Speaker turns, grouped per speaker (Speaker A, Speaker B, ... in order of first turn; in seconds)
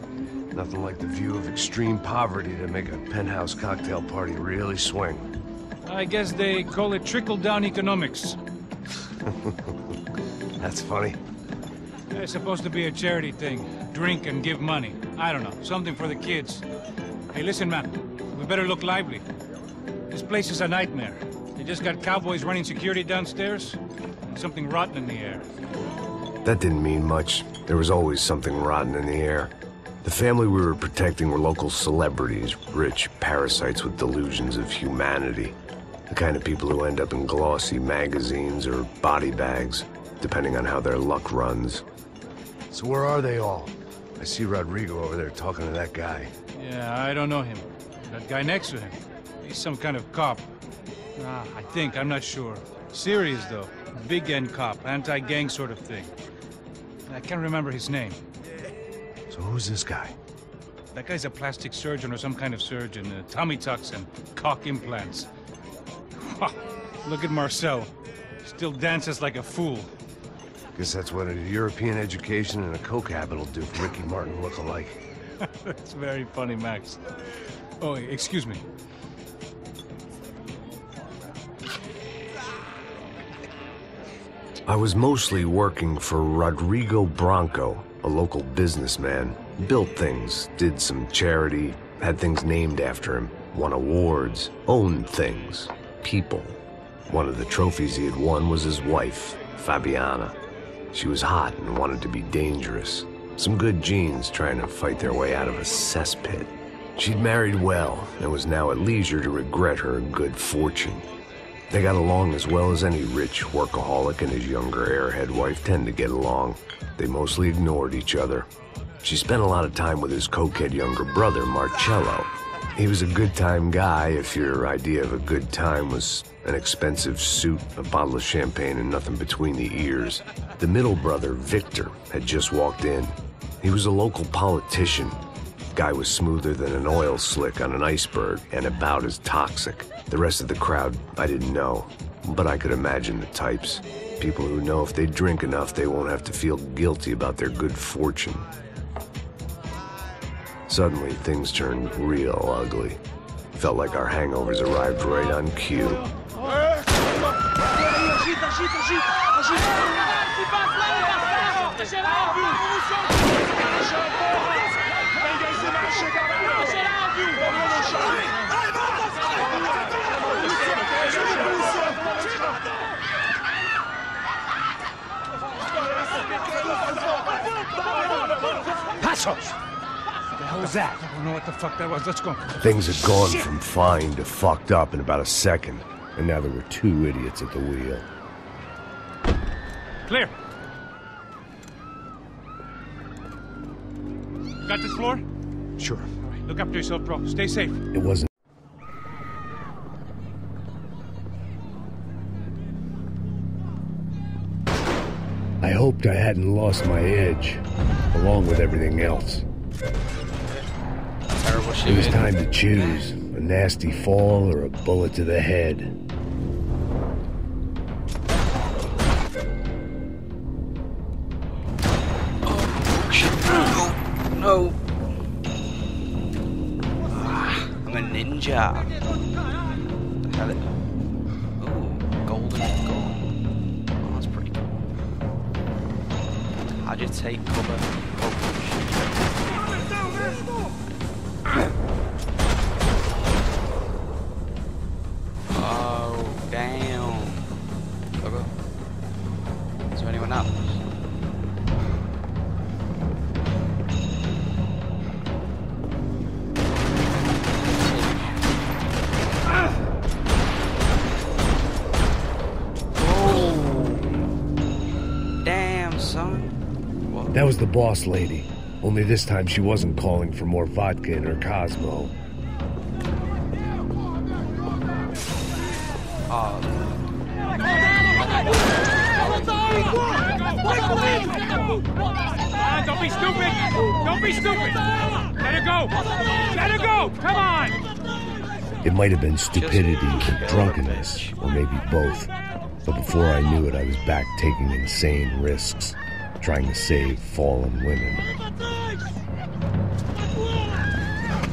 Speaker A: 0.5-5.3, 9.2-9.8, 10.6-11.2, 26.4-29.5, 30.0-35.6, 36.1-41.8, 42.7-46.3, 59.3-60.1, 70.7-75.0, 84.7-100.3, 100.9-111.0, 111.7-118.5, 119.0-135.2, 135.7-148.5, 150.7-153.0, 153.5-156.1, 182.6-188.1, 195.8-196.1, 197.9-198.3, 205.6-209.4, 211.8-215.9, 267.3-272.1, 288.8-292.3, 292.8-298.3
Speaker B: 5.8-8.4, 12.1-16.6, 17.3-19.2, 20.1-25.4, 46.5-50.5, 51.2-56.1, 57.1-58.2, 60.9-65.3, 66.2-67.9, 68.4-69.9, 75.4-77.0, 77.8-78.6, 161.9-162.3, 178.9-179.5, 180.4-182.6, 190.1-190.3, 194.6-195.2, 196.3-197.8, 279.7-281.7, 282.4-287.8
Speaker C: 211.3-212.3, 222.4-224.8, 227.1-229.0, 230.2-230.7, 231.6-233.4, 234.0-234.7, 236.7-239.2, 245.5-247.5, 248.2-248.5, 249.9-250.8, 257.7-258.4, 262.9-264.1, 265.4-267.5, 276.3-276.9, 289.5-291.3